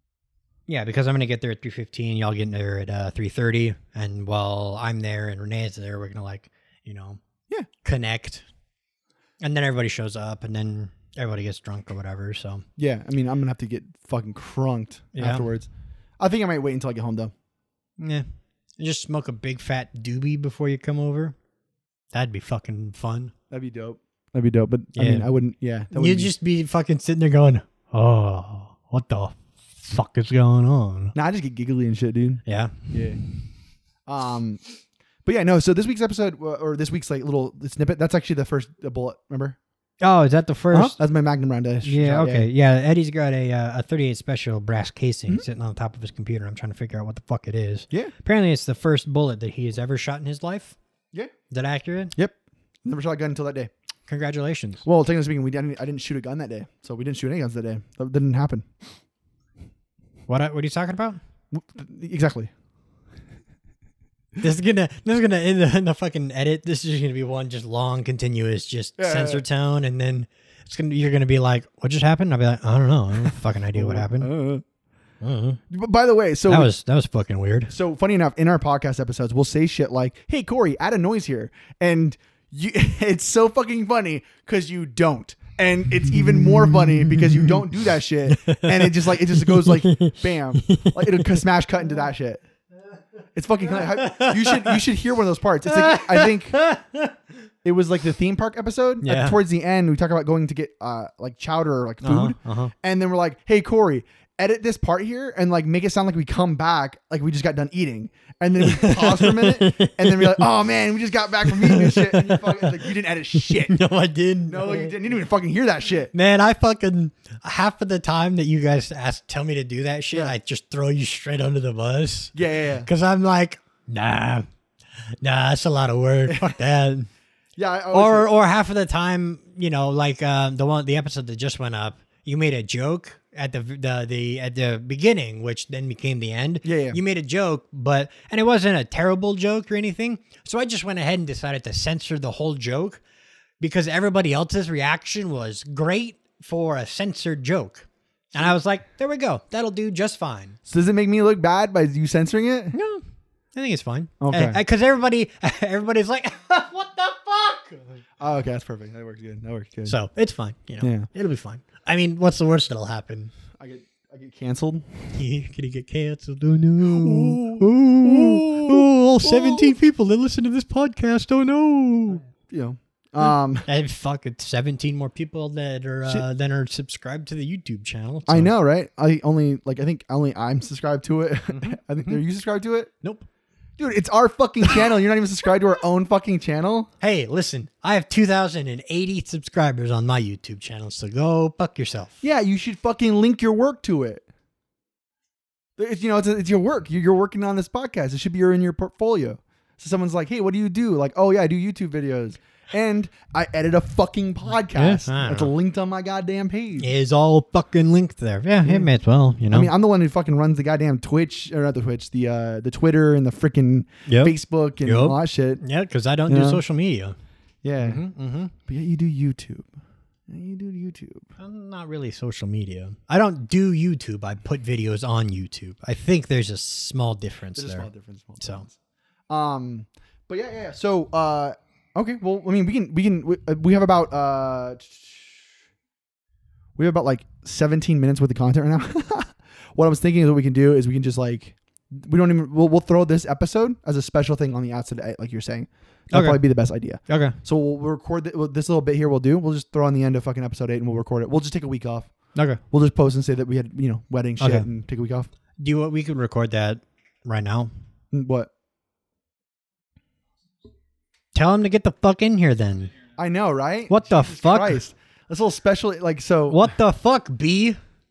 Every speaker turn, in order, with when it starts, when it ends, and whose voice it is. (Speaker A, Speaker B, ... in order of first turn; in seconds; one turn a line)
Speaker A: 0.7-7.2
Speaker A: 7.8-8.4
Speaker A: 9.4-12.7
Speaker B: 12.8-17.3
Speaker A: 15.1-15.5
Speaker A: 18.0-18.3
Speaker A: 18.8-21.3
Speaker A: 22.1-23.3
Speaker B: 23.5-26.3
Speaker A: 24.9-25.3
Speaker A: 25.9-31.1
Speaker B: 31.1-33.2
Speaker A: 32.5-32.9
Speaker B: 34.1-34.6
Speaker B: 35.2-39.6
Speaker A: 40.0-41.0
Speaker B: 40.7-42.5
Speaker A: 41.8-50.8
Speaker A: 51.5-52.1
Speaker B: 52.1-53.7
Speaker A: 54.1-54.8
Speaker B: 54.8-58.7
Speaker A: 60.3-61.2
Speaker B: 61.5-62.5
Speaker A: 64.4-74.3
Speaker B: 69.0-69.4
Speaker B: 73.7-74.6
Speaker A: 75.2-75.6
Speaker B: 75.7-76.7
Speaker A: 76.5-77.7
Speaker B: 77.7-92.4
Speaker A: 86.1-87.6
Speaker A: 88.3-91.4
Speaker B: 93.3-96.6
Speaker A: 93.9-94.8
Speaker A: 95.7-97.1
Speaker B: 97.6-113.8
Speaker A: 99.0-99.4
Speaker A: 102.0-102.7
Speaker A: 108.6-110.4
Speaker A: 111.5-112.8
Speaker A: 113.5-114.9
Speaker B: 114.5-116.1
Speaker A: 116.1-124.5
Speaker B: 122.3-122.9
Speaker A: 125.2-127.1
Speaker B: 126.3-126.5
Speaker B: 127.6-128.3
Speaker A: 127.9-143.0
Speaker B: 136.6-137.0
Speaker A: 143.6-150.6
Speaker B: 150.7-152.8
Speaker A: 152.7-153.0
Speaker A: 153.5-158.0
Speaker B: 154.2-154.6
Speaker B: 158.2-159.9
Speaker A: 159.8-163.3
Speaker B: 160.8-161.1
Speaker B: 163.6-165.1
Speaker A: 165.1-172.2
Speaker B: 166.8-169.8
Speaker B: 172.5-173.7
Speaker A: 173.7-178.5
Speaker B: 178.3-182.9
Speaker A: 181.5-182.2
Speaker A: 183.0-183.3
Speaker B: 183.8-186.9
Speaker A: 187.0-192.2
Speaker B: 192.2-194.2
Speaker B: 195.8-206.9
Speaker A: 204.7-205.5
Speaker A: 206.8-209.7
Speaker B: 208.6-208.9
Speaker B: 209.5-215.6
Speaker A: 214.1-217.2
Speaker B: 216.3-216.6
Speaker B: 217.6-218.0
Speaker A: 217.8-218.5
Speaker B: 218.7-219.7
Speaker B: 220.3-221.3
Speaker A: 221.4-227.9
Speaker B: 227.5-228.7
Speaker A: 228.4-228.6
Speaker B: 229.3-235.4
Speaker B: 236.8-252.1
Speaker A: 246.1-246.4
Speaker A: 247.1-247.3
Speaker A: 252.3-252.6
Speaker B: 252.6-255.3
Speaker A: 254.4-254.7
Speaker A: 255.6-257.7
Speaker B: 258.1-258.5
Speaker A: 261.3-262.9
Speaker B: 263.2-266.7
Speaker A: 263.9-264.8
Speaker A: 266.5-267.8